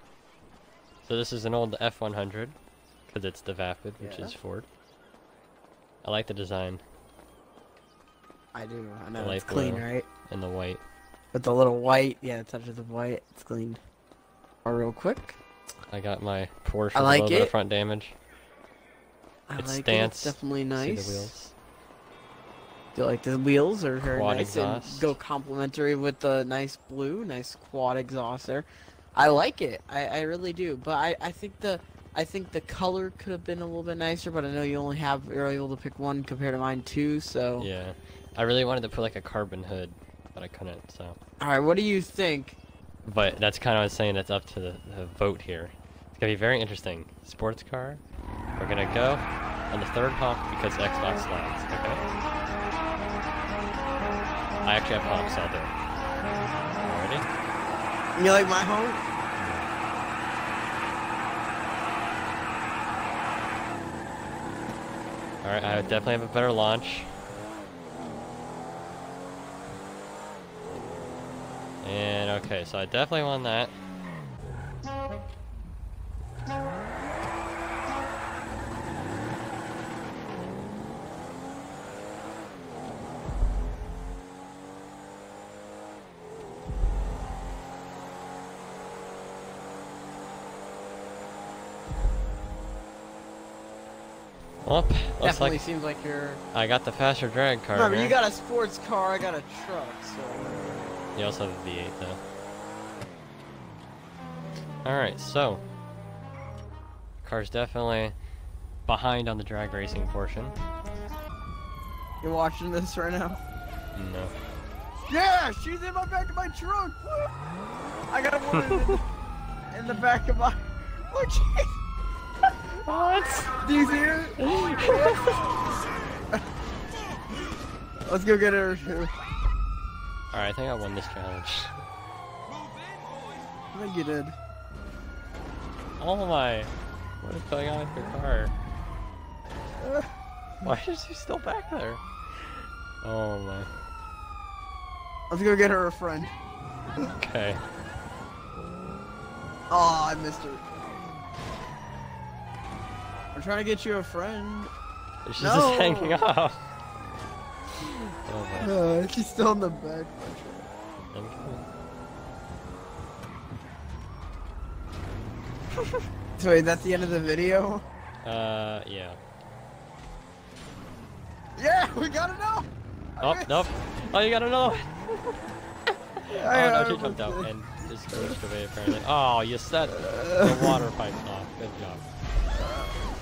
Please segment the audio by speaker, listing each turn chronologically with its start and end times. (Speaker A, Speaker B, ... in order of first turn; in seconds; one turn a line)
Speaker A: 1.0-2.6
Speaker A: 3.1-4.7
Speaker B: 4.0-4.3
Speaker A: 6.0-6.8
Speaker B: 8.5-10.1
Speaker A: 9.2-10.8
Speaker B: 11.3-13.8
Speaker B: 14.7-15.4
Speaker A: 15.9-18.1
Speaker B: 16.9-17.5
Speaker B: 19.5-21.3
Speaker A: 19.6-21.6
Speaker B: 22.9-37.7
Speaker A: 24.0-25.2
Speaker A: 37.6-41.2
Speaker B: 41.4-42.6
Speaker A: 43.0-48.0
Speaker A: 48.6-52.0
Speaker A: 54.6-55.7
Speaker A: 56.8-57.3
Speaker B: 58.2-59.0
Speaker A: 59.4-59.7
Speaker A: 65.4-67.1
Speaker A: 71.8-73.7
Speaker A: 94.6-95.6
Speaker B: 95.2-96.4
Speaker A: 96.5-98.2
Speaker B: 97.7-101.0
Speaker A: 101.2-102.2
Speaker A: 104.8-105.6
Speaker A: 107.2-108.2
Speaker A: 108.9-110.6
Speaker B: 112.2-113.4
Speaker A: 113.9-114.3
Speaker B: 115.1-117.3
Speaker B: 118.1-119.0
Speaker A: 118.5-119.0
Speaker B: 119.7-121.7
Speaker A: 122.8-123.5
Speaker B: 123.5-125.5
Speaker A: 124.4-125.3
Speaker B: 128.0-129.2
Speaker A: 130.3-131.8
Speaker B: 133.7-134.3
Speaker A: 136.0-138.5
Speaker B: 139.8-140.1
Speaker A: 140.6-142.0
Speaker A: 143.0-143.7
Speaker B: 145.3-146.3
Speaker A: 147.0-147.6
Speaker B: 149.7-150.7
Speaker B: 153.3-154.7
Speaker A: 155.3-156.6
Speaker B: 155.4-156.2
Speaker A: 157.9-158.7
Speaker B: 158.6-160.7
Speaker A: 161.1-161.6
Speaker B: 166.4-167.8
Speaker A: 168.2-169.2
Speaker B: 171.6-173.7
Speaker A: 173.2-175.4
Speaker A: 176.3-182.0
Speaker B: 176.3-177.5
Speaker B: 178.1-178.4
Speaker B: 179.9-180.8
Speaker B: 182.6-182.9